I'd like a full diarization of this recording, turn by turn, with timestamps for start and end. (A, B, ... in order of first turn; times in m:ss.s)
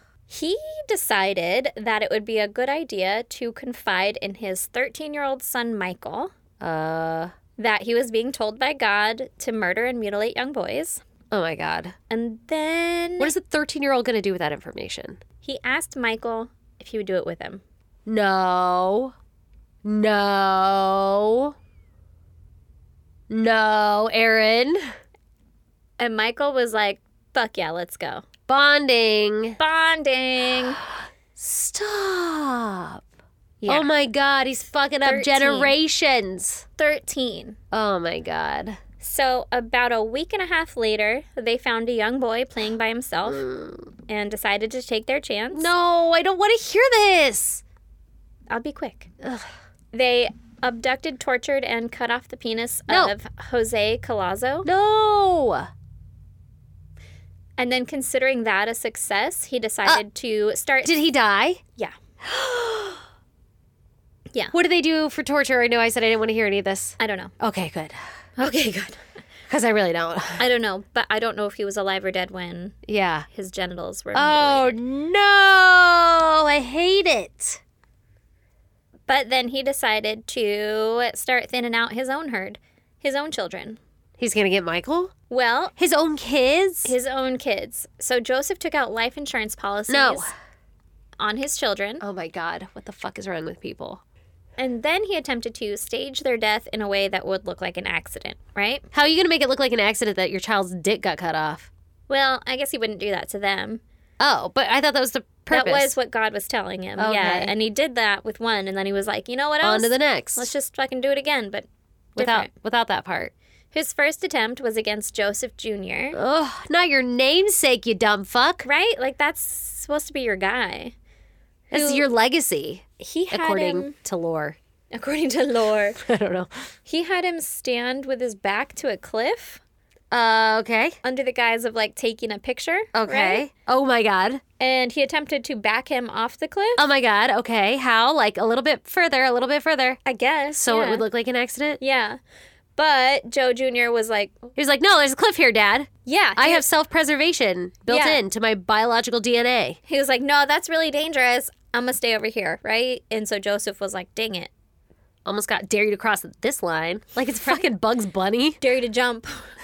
0:00.3-0:06.3 A
0:06.6-0:07.3 B
0:07.6-0:11.0 A
0:11.3-0:11.9 B
0:12.1-0:13.3 A
0:13.2-0:15.2 B
0:15.4-0:17.6 A
0:18.0-0:19.1 B
0:19.8-0:21.5 B
0:23.3-0:24.9 B
0:26.0-0:28.2 A
0:28.5-0:29.6 B
0:29.6-0:30.8 A
0:31.4-0:33.0 B
0:33.6-0:33.9 A
0:33.6-0:36.6 B
0:35.0-0:35.7 A
0:36.8-0:37.6 A
0:37.7-0:38.8 B
0:39.0-0:43.4 A
0:43.3-0:43.9 B
0:44.1-0:45.7 A
0:45.5-0:47.6 B
0:48.5-0:49.1 A
0:49.2-0:49.5 B
0:49.9-0:54.7 A
0:52.9-0:53.1 B
0:54.6-0:55.7 B
0:57.6-1:01.0 A
1:00.8-1:01.6 B
1:02.2-1:03.0 B
1:04.5-1:08.0 B
1:07.0-1:07.3 A
1:08.4-1:09.0 A
1:09.5-1:10.4 B
1:10.4-1:12.8 A
1:12.8-1:13.3 B
1:13.3-1:14.8 A
1:14.1-1:17.6 B
1:19.1-1:23.8 A
1:24.2-1:25.1 B
1:25.3-1:25.7 A
1:25.8-1:26.9 B
1:26.8-1:30.3 A
1:29.9-1:30.3 B
1:31.2-1:32.0 A
1:32.0-1:34.0 B
1:34.6-1:38.8 A
1:38.9-1:41.7 B
1:42.1-1:43.8 A
1:44.2-1:46.0 B
1:45.5-1:52.5 A
1:47.0-1:47.5 B
1:49.6-1:50.5 B
1:52.2-1:53.3 B
1:53.7-1:56.2 A
1:56.1-1:58.7 B
1:58.6-2:00.9 A
2:01.7-2:02.0 A
2:01.7-2:04.6 B
2:03.0-2:03.9 A
2:04.9-2:06.0 A
2:06.0-2:06.6 B
2:06.8-2:09.6 A
2:10.1-2:11.0 B
2:11.0-2:13.5 A
2:12.9-2:14.4 B
2:14.6-2:16.9 A
2:16.8-2:20.0 B
2:20.0-2:21.0 A
2:20.5-2:21.8 B
2:21.8-2:22.2 A
2:22.8-2:24.5 A
2:24.5-2:29.8 B
2:26.0-2:26.6 A
2:27.9-2:28.2 A
2:29.9-2:34.5 A
2:35.2-2:38.6 B
2:38.6-2:39.5 A